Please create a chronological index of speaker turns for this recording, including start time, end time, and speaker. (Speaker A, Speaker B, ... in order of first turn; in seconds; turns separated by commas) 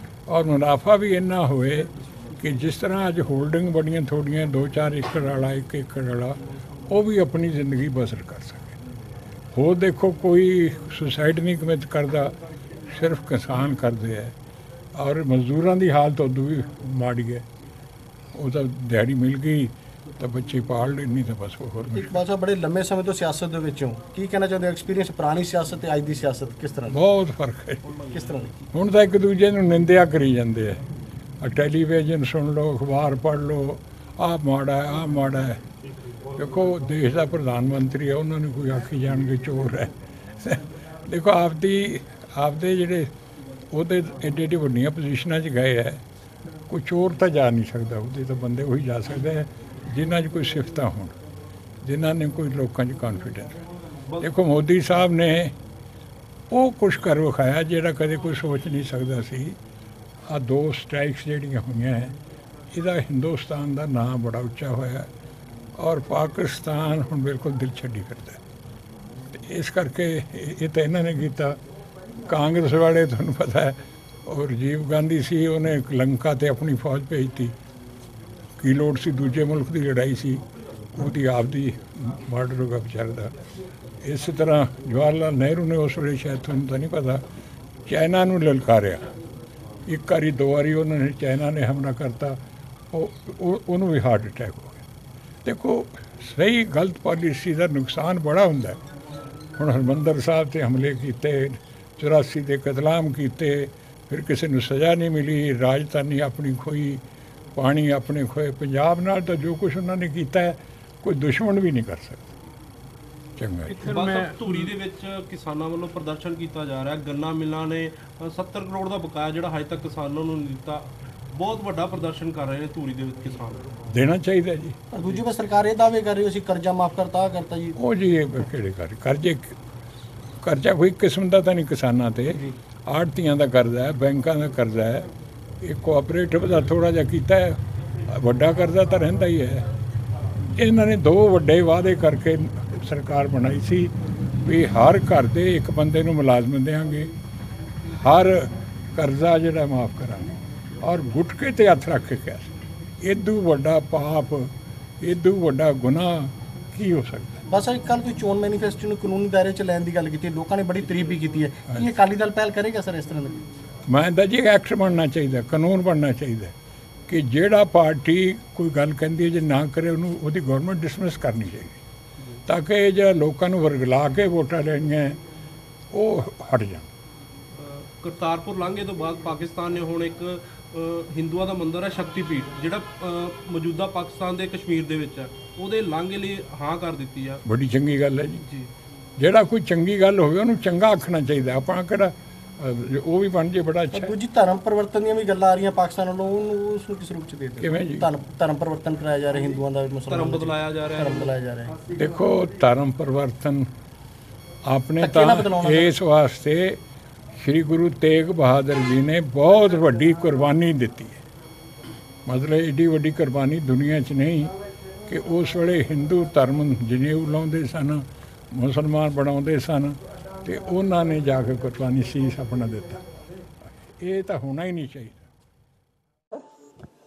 Speaker A: 0.3-8.8, Speaker A: 9.5-12.3, Speaker A: 12.9-14.3, Speaker A: 14.9-17.4, Speaker A: 18.4-22.2, Speaker B: 21.9-27.0, Speaker A: 26.9-27.8, Speaker B: 28.1-28.5, Speaker A: 28.7-30.8, Speaker A: 31.4-35.6, Speaker A: 36.4-43.1, Speaker A: 43.7-46.0, Speaker A: 46.7-51.2, Speaker A: 51.8-53.6, Speaker A: 54.2-55.5, Speaker A: 56.5-59.6, Speaker A: 60.3-62.2, Speaker A: 62.7-65.1, Speaker A: 65.8-68.4, Speaker A: 69.3-71.6, Speaker A: 72.3-77.5, Speaker A: 78.6-80.4, Speaker A: 80.9-83.3, Speaker A: 84.0-87.2, Speaker A: 87.9-89.1, Speaker A: 89.9-92.4, Speaker A: 92.9-94.8, Speaker A: 95.5-98.8, Speaker A: 99.6-107.0, Speaker A: 107.5-112.3, Speaker A: 113.4-113.9, Speaker C: 113.8-123.7, Speaker A: 123.9-124.8, Speaker B: 124.9-127.8, Speaker A: 127.8-129.6, Speaker A: 130.4-135.1, Speaker A: 135.6-139.7, Speaker A: 140.6-147.1, Speaker A: 147.9-152.5, Speaker A: 153.0-157.4, Speaker B: 157.5-163.5, Speaker A: 163.9-166.5, Speaker A: 167.1-171.8, Speaker A: 172.5-175.2, Speaker A: 175.9-176.9, Speaker C: 177.6-187.4, Speaker A: 187.4-188.4, Speaker A: 189.2-194.1, Speaker B: 193.9-201.7, Speaker A: 197.6-198.1, Speaker C: 200.1-201.3, Speaker A: 201.9-203.7, Speaker A: 204.7-206.8, Speaker B: 205.0-205.9, Speaker A: 207.4-211.2, Speaker A: 212.3-214.5, Speaker A: 215.1-223.0, Speaker A: 224.0-225.2